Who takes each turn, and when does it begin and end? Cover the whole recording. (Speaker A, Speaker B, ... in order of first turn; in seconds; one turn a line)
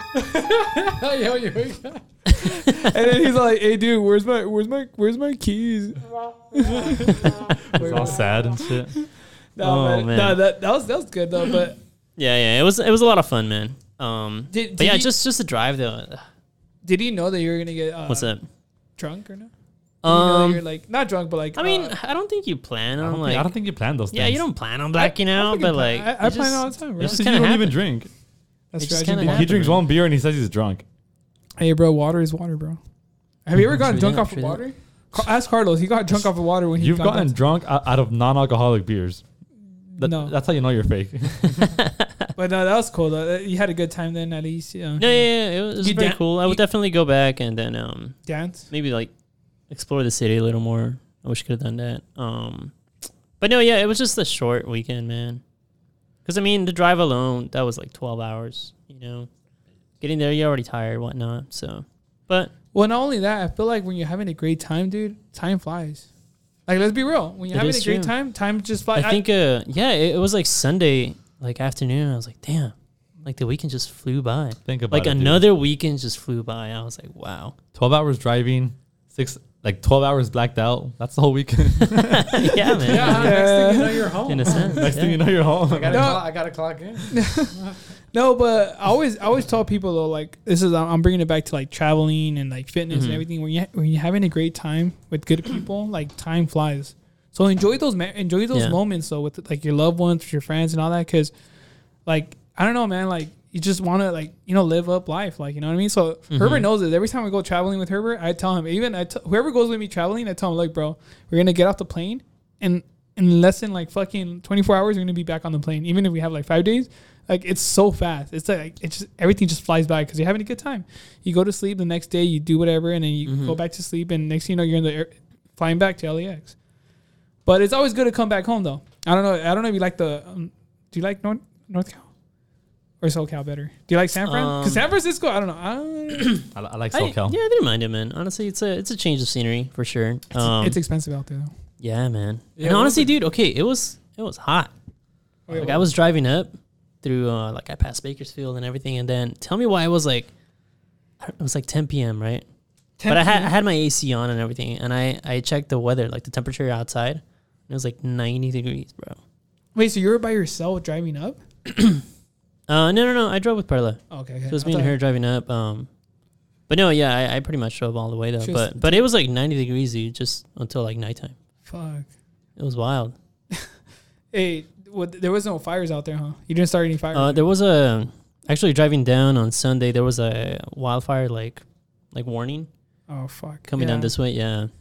Speaker A: 0.1-2.0
Speaker B: 2.4-2.9
Speaker C: 2.5-8.3
Speaker A: 7.7-8.2
Speaker D: 7.7-8.9
Speaker C: 9.6-11.8
Speaker B: 9.6-10.4
Speaker B: 12.2-16.2
Speaker C: 14.5-15.1
Speaker C: 16.8-18.3
Speaker B: 18.1-18.4
Speaker C: 19.0-19.5
Speaker B: 20.0-20.6
Speaker C: 20.0-21.9
Speaker B: 21.6-23.5
Speaker D: 23.0-24.4
Speaker B: 24.1-27.8
Speaker C: 24.9-27.2
Speaker D: 27.0-28.1
Speaker C: 28.7-29.7
Speaker B: 28.8-29.8
Speaker D: 29.2-30.8
Speaker C: 31.6-32.8
Speaker C: 33.5-37.3
Speaker B: 33.7-34.6
Speaker D: 36.8-39.2
Speaker C: 39.9-40.3
Speaker D: 40.0-41.8
Speaker B: 41.7-42.2
Speaker C: 42.4-46.6
Speaker B: 45.0-49.1
Speaker C: 48.3-48.6
Speaker B: 49.7-52.7
Speaker B: 53.4-55.4
Speaker B: 56.2-59.3
Speaker B: 60.0-62.5
Speaker C: 62.7-66.0
Speaker C: 66.7-69.2
Speaker B: 67.5-68.1
Speaker B: 68.9-72.7
Speaker B: 73.2-77.5
Speaker D: 74.6-75.5
Speaker D: 77.7-83.1
Speaker B: 82.0-83.4
Speaker A: 82.8-84.9
Speaker C: 83.0-84.6
Speaker B: 84.2-85.2
Speaker D: 84.5-86.2
Speaker A: 85.6-87.7
Speaker C: 85.9-86.3
Speaker C: 87.1-87.6
Speaker C: 88.1-101.3
Speaker B: 92.9-93.2
Speaker C: 102.0-126.5
Speaker B: 106.3-106.7
Speaker B: 123.2-123.6
Speaker C: 127.5-132.0
Speaker C: 133.0-136.5
Speaker B: 134.2-134.9
Speaker D: 136.5-137.4
Speaker B: 136.9-140.8
Speaker C: 140.3-141.5
Speaker B: 141.8-144.7
Speaker A: 142.6-143.2
Speaker C: 145.5-145.9
Speaker B: 145.5-150.3
Speaker B: 151.2-152.4
Speaker C: 153.0-153.5
Speaker B: 153.1-159.2
Speaker C: 159.7-161.4
Speaker B: 161.7-162.0
Speaker B: 162.7-165.9
Speaker C: 164.1-164.9
Speaker B: 166.7-171.3
Speaker C: 168.4-169.1
Speaker C: 171.7-172.1
Speaker B: 172.6-173.1
Speaker C: 174.3-177.4
Speaker B: 177.1-182.7
Speaker C: 183.1-184.1
Speaker B: 183.7-184.7